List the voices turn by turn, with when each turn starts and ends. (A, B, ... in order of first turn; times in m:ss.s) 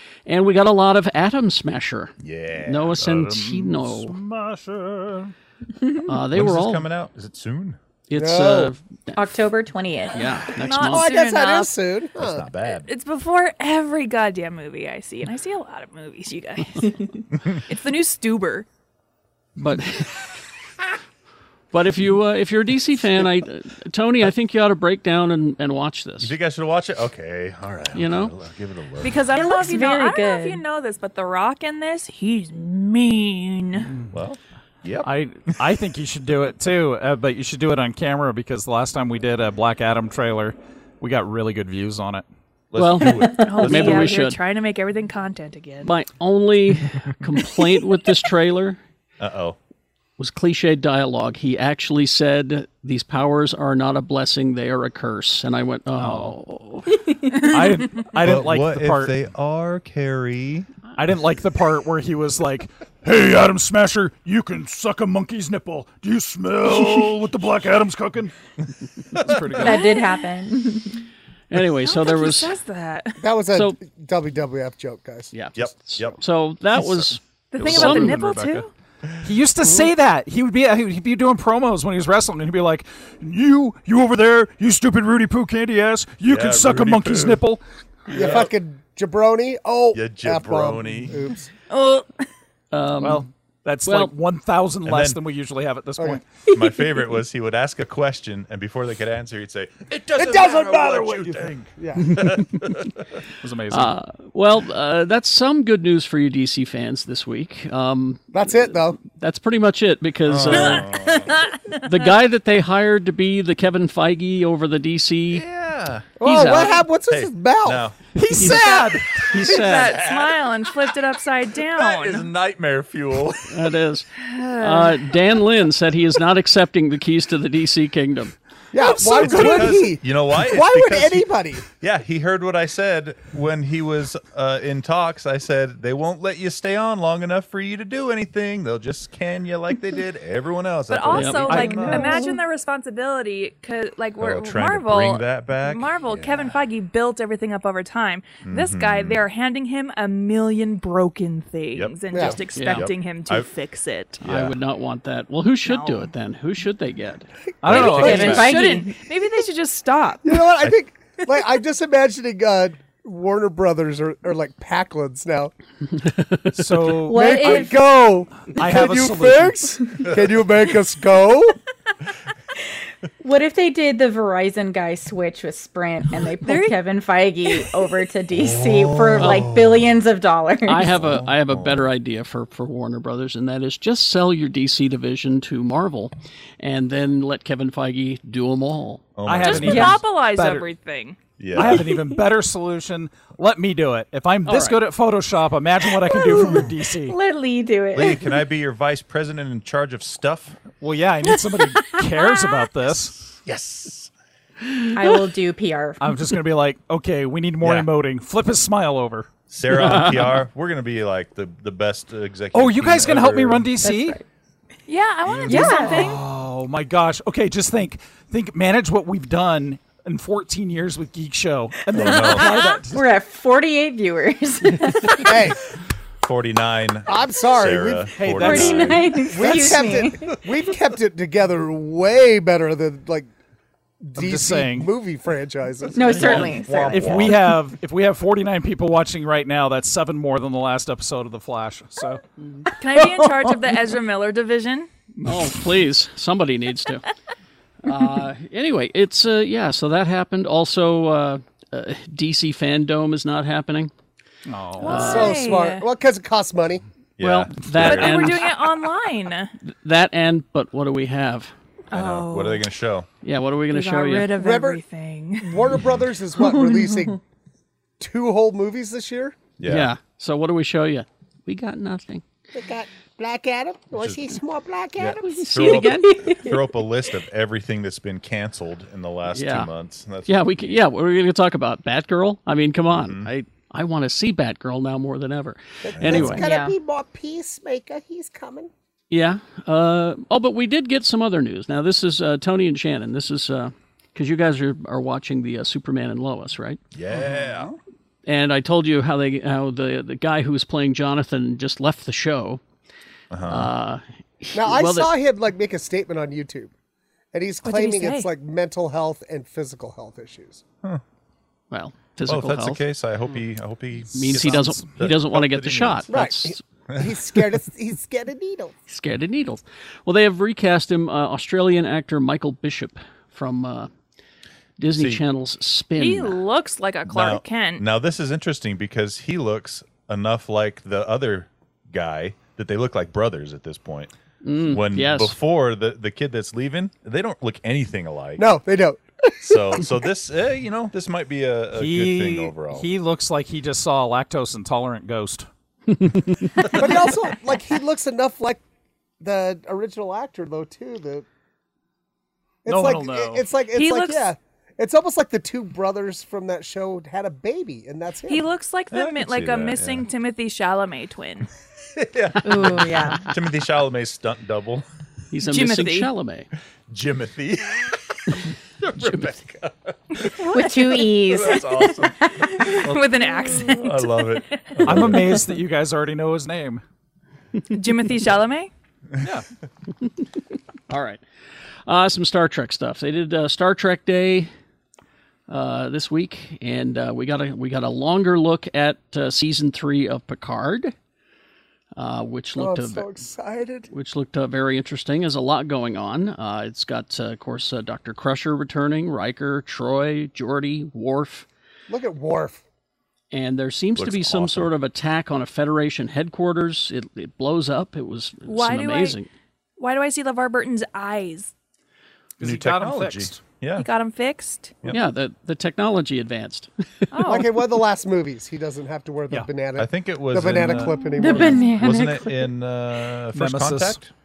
0:00.3-0:04.2 A
0:02.2-0:03.4 B
0:03.0-0:05.3 C
0:05.8-0:06.1 D
0:06.1-0:06.9 A
0:06.3-0:07.8 B
0:08.1-0:09.3 A
0:08.1-0:08.8 E
0:09.2-0:10.4 D
0:10.1-0:11.1 A
0:10.6-0:11.7 F
0:10.7-0:12.5 E
0:12.2-0:12.9 B
0:12.7-0:18.7 F
0:19.6-0:20.3 A
0:21.7-0:26.3 A
0:26.2-0:29.3 B
0:27.9-0:28.3 A
0:29.0-0:33.9 F
0:29.3-0:30.6 D
0:34.1-0:35.1 B
0:35.0-0:42.2 C
0:42.7-0:44.2 B
0:42.8-0:44.4 A
0:43.0-0:43.6 D
0:43.4-0:45.9 F
0:45.8-0:48.8 A
0:49.2-0:49.6 B
0:50.2-0:57.0 A
0:56.0-0:56.4 C
0:57.0-0:57.8 D
0:57.4-0:59.2 C
0:58.2-1:00.7 B
1:01.0-1:08.3 C
1:09.1-1:09.8 C
1:09.2-1:09.7 B
1:09.6-1:11.0 D
1:09.7-1:10.2 F
1:11.5-1:12.6 A
1:11.8-1:13.2 F
1:13.2-1:15.3 E
1:15.3-1:18.2 A
1:15.6-1:16.2 B
1:17.5-1:18.7 F
1:17.6-1:18.7 C
1:19.2-1:27.6 C
1:26.3-1:27.4 B
1:28.1-1:31.5 E
1:28.1-1:28.5 B
1:29.9-1:31.2 B
1:31.7-1:32.2 F
1:32.7-1:33.3 A
1:33.0-1:36.2 C
1:33.8-1:34.1 A
1:34.8-1:35.2 B
1:36.5-1:42.7 B
1:36.6-1:37.0 D
1:40.1-1:42.3 E
1:42.1-1:42.8 A
1:43.4-1:44.0 C
1:43.7-1:50.9 A
1:48.3-1:49.0 E
1:50.2-1:51.4 B
1:50.5-1:52.2 F
1:51.8-1:55.4 A
1:55.3-1:56.2 B
1:56.2-1:57.9 E
1:56.2-1:56.8 A
1:57.1-2:00.9 B
1:58.2-1:59.0 C
1:58.3-2:00.0 A
1:59.4-2:02.3 F
2:01.7-2:03.7 B
2:03.5-2:04.1 A
2:04.2-2:05.4 F
2:04.6-2:08.3 A
2:08.7-2:11.7 E
2:08.8-2:22.2 B
2:08.9-2:09.8 C
2:20.9-2:34.2 F
2:21.1-2:21.9 A
2:21.5-2:22.0 C
2:24.2-2:26.6 B
2:28.4-2:29.2 B
2:31.8-2:33.5 B
2:32.1-2:32.4 E
2:32.5-2:32.9 A
2:34.2-2:37.3 A
2:34.2-2:34.6 B
2:35.6-2:36.1 F
2:37.5-2:38.4 E
2:37.6-2:38.4 C
2:37.7-2:38.4 B
2:37.7-2:40.4 F
2:37.8-2:39.0 D
2:40.2-2:45.5 E
2:45.9-2:46.9 A
2:46.6-2:47.6 C
2:47.1-2:48.0 D
2:47.1-2:51.6 E
2:48.5-2:49.7 C
2:53.2-3:01.0 D
2:56.2-2:56.8 F
2:58.3-3:00.0 B
2:59.2-2:59.5 A
3:00.7-3:09.1 A
3:01.0-3:01.9 B
3:09.2-3:10.0 B
3:09.2-3:10.7 C
3:09.4-3:11.2 F
3:11.4-3:12.0 B
3:11.5-3:17.2 C
3:14.4-3:14.8 A
3:16.1-3:18.3 D
3:17.9-3:20.6 B
3:20.8-3:23.2 C
3:23.4-3:24.1 B
3:25.0-3:26.0 D
3:26.0-3:29.3 C
3:27.6-3:27.9 B
3:29.5-3:33.7 B
3:29.7-3:30.4 A
3:32.5-3:34.2 C
3:33.8-3:34.2 D
3:34.9-3:36.2 F
3:35.3-3:36.1 B
3:35.5-3:36.2 D
3:35.9-3:43.1 C
3:41.9-3:45.4 D
3:41.9-3:42.5 B
3:45.2-3:45.6 E
3:46.2-3:49.6 B
3:47.1-3:48.2 E
3:48.2-3:49.3 C
3:48.3-3:50.4 D
3:49.3-3:53.3 E
3:54.0-3:57.4 E
3:54.2-3:54.9 C
3:55.9-3:57.1 D
3:56.2-4:02.2 C
3:56.4-3:57.4 B
4:02.4-4:02.7 A
4:02.8-4:04.9 F
4:05.2-4:07.0 A
4:07.8-4:13.9 A
4:14.5-4:15.1 C
4:14.8-4:15.9 F
4:14.8-4:15.5 A
4:14.9-4:16.8 E
4:17.2-4:18.5 B
4:17.2-4:18.6 A
4:17.8-4:19.5 F
4:19.6-4:21.5 A
4:21.9-4:22.7 F
4:21.9-4:23.1 B
4:23.2-4:24.4 A
4:23.7-4:25.6 F
4:24.4-4:24.8 E
4:25.4-4:27.2 E
4:25.8-4:26.0 B
4:26.4-4:27.1 D
4:28.0-4:29.4 E
4:29.6-4:29.9 B
4:29.7-4:32.2 A
4:32.5-4:35.8 E
4:34.0-4:34.2 B
4:35.0-4:40.8 B
4:35.2-4:36.3 A
4:35.8-4:36.6 D
4:39.3-4:39.7 A
4:40.3-4:46.4 A
4:42.9-4:43.3 B
4:45.8-4:48.7 E
4:46.0-4:46.4 B
4:46.3-4:46.7 D
4:49.1-4:56.8 A
4:56.9-4:57.8 B
4:58.3-5:02.6 A
5:03.3-5:03.7 B
5:03.5-5:05.1 A
5:04.6-5:06.7 E
5:07.3-5:10.6 E
5:07.6-5:08.3 F
5:11.7-5:12.8 A
5:12.3-5:16.1 B
5:14.1-5:16.6 A
5:14.4-5:14.7 C
5:16.1-5:18.8 E
5:18.9-5:23.9 A
5:24.8-5:26.4 A
5:25.0-5:25.2 B
5:26.0-5:27.8 F
5:27.1-5:38.5 B
5:34.4-5:35.4 A
5:38.4-5:39.0 E
5:39.4-5:42.9 B
5:41.8-5:45.5 C
5:46.0-5:46.7 A
5:46.8-5:48.6 E
5:49.2-5:51.3 E
5:52.6-5:58.5 E
5:52.7-5:53.5 C
5:53.7-5:54.3 F
5:58.3-6:01.5 F
5:58.9-6:00.1 B
6:02.0-6:04.8 B
6:02.4-6:03.3 D
6:05.3-6:06.5 A
6:05.5-6:06.1 F
6:06.9-6:10.6 B
6:10.4-6:11.0 F
6:10.5-6:12.4 D
6:11.3-6:12.8 B
6:12.6-6:14.3 F
6:13.7-6:15.4 B
6:14.9-6:16.8 C
6:17.7-6:18.7 F
6:20.9-6:21.2 A
6:21.9-6:24.5 A
6:25.5-6:30.9 A
6:32.0-6:33.1 A
6:32.6-6:33.9 E
6:33.9-6:41.5 A
6:41.9-6:42.6 E
6:43.3-6:49.3 A
6:44.0-6:44.7 B
6:48.4-6:49.2 F
6:49.8-6:51.5 F
6:52.4-6:53.4 C
6:52.4-6:53.9 B
6:53.8-6:54.8 F
6:54.9-6:56.7 A
6:57.1-6:57.5 F
6:57.3-7:01.7 E
6:59.8-7:04.1 B
7:01.2-7:02.5 D
7:03.3-7:04.0 C